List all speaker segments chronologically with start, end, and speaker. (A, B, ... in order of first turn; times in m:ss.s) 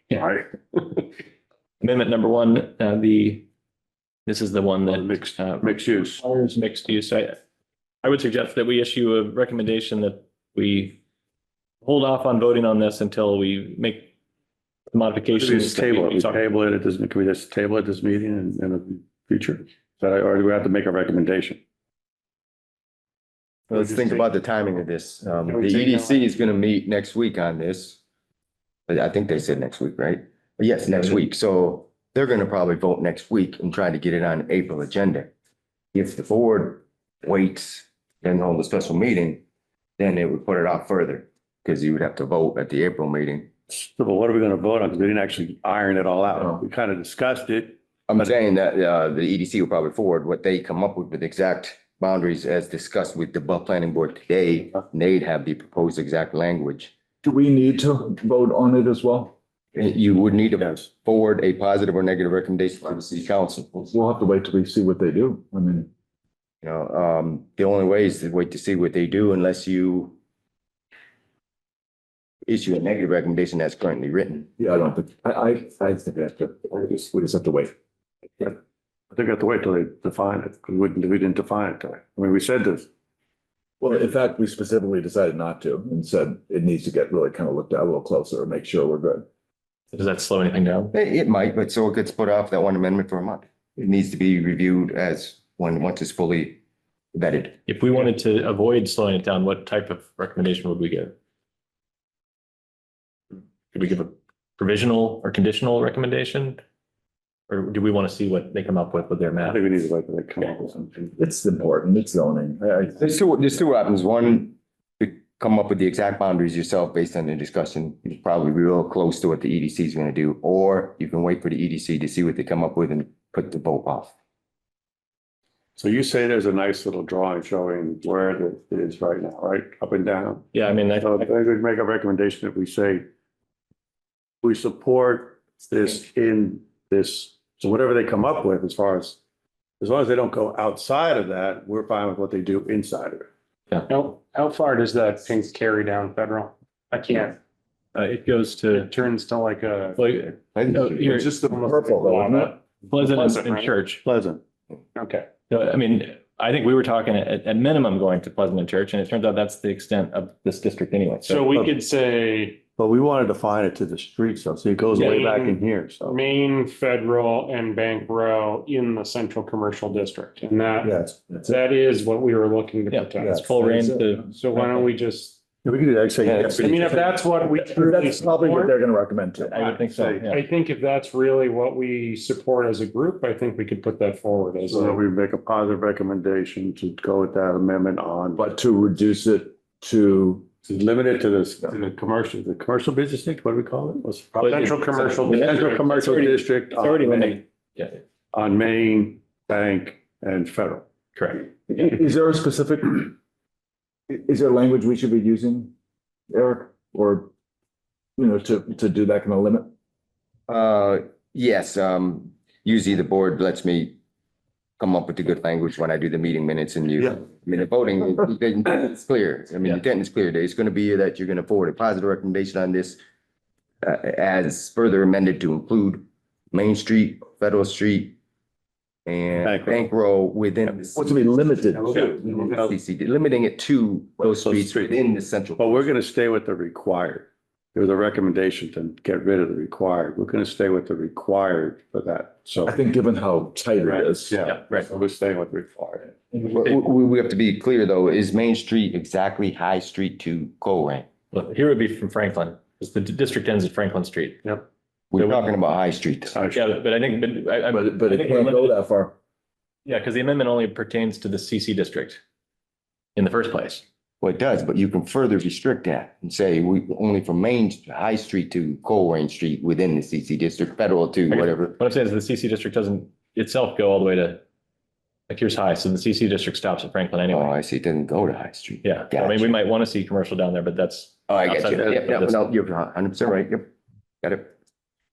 0:00.1-0:00.5 A
0:01.8-0:03.4 B
0:04.2-0:07.4 B
0:04.8-0:06.2 A
0:08.0-0:11.0 B
0:11.8-0:14.1 B
0:14.9-0:16.4 B
0:15.3-0:21.6 A
0:23.7-0:28.0 C
0:23.9-0:24.2 D
0:25.4-0:26.3 D
0:28.9-0:35.3 C
0:35.9-0:39.4 C
0:40.0-0:43.5 C
0:43.7-0:48.3 A
0:48.1-0:56.9 C
0:57.2-0:59.3 E
0:59.7-1:03.9 C
1:03.9-1:05.9 E
1:06.6-1:10.1 C
1:12.4-1:14.5 C
1:14.6-1:17.7 E
1:19.1-1:22.9 A
1:23.8-1:29.2 E
1:29.9-1:30.9 B
1:30.9-1:36.6 C
1:37.1-1:37.6 C
1:37.7-1:41.2 B
1:43.7-1:46.6 B
1:47.5-1:49.6 B
1:49.4-1:51.1 A
1:51.1-1:53.1 E
1:53.0-2:04.1 C
2:05.8-2:13.1 A
2:10.5-2:11.3 B
2:14.4-2:19.2 A
2:19.8-2:23.3 A
2:23.9-2:27.4 D
2:28.0-2:28.9 B
2:28.7-2:30.0 D
2:30.0-2:31.3 B
2:30.6-2:32.6 E
2:31.0-2:33.7 D
2:32.9-2:34.0 B
2:34.0-2:34.4 A
2:35.0-2:35.4 D
2:35.5-2:41.5 B
2:41.2-2:42.6 D
2:42.8-2:46.2 A
2:44.9-2:53.6 D
2:50.8-2:51.2 A
2:52.9-2:54.9 B
2:53.2-2:53.5 A
2:53.6-2:54.2 E
2:54.1-2:55.4 D
2:55.6-2:56.9 A
2:56.4-2:58.7 D
2:56.4-2:57.1 B
2:57.7-2:59.6 E
2:59.4-3:00.4 B
2:59.6-3:00.2 A
3:00.2-3:05.0 D
3:04.7-3:08.4 A
3:08.4-3:10.5 E
3:10.6-3:17.4 A
3:14.4-3:16.3 D
3:15.3-3:18.0 B
3:18.3-3:20.9 A
3:21.2-3:21.5 B
3:21.7-3:23.1 E
3:24.1-3:25.7 E
3:26.3-3:27.3 E
3:28.2-3:29.7 E
3:30.5-3:34.0 C
3:34.8-3:43.0 C
3:43.8-3:48.2 C
3:49.1-3:51.2 C
3:49.4-3:49.9 A
3:51.0-3:52.4 E
3:51.9-3:55.9 C
3:51.9-3:52.8 A
3:54.4-3:54.9 A
3:55.6-4:02.8 A
4:02.6-4:04.4 E
4:03.9-4:06.2 A
4:04.4-4:04.9 B
4:06.5-4:11.1 C
4:11.3-4:14.5 B
4:15.1-4:16.4 C
4:15.2-4:15.5 B
4:16.4-4:16.8 A
4:16.5-4:18.8 B
4:17.7-4:19.2 E
4:19.9-4:22.2 B
4:23.2-4:23.8 B
4:24.2-4:31.8 C
4:31.3-4:34.4 B
4:35.3-4:37.5 B
4:37.3-4:39.5 C
4:38.8-4:42.4 B
4:41.3-4:43.7 C
4:44.2-4:44.5 C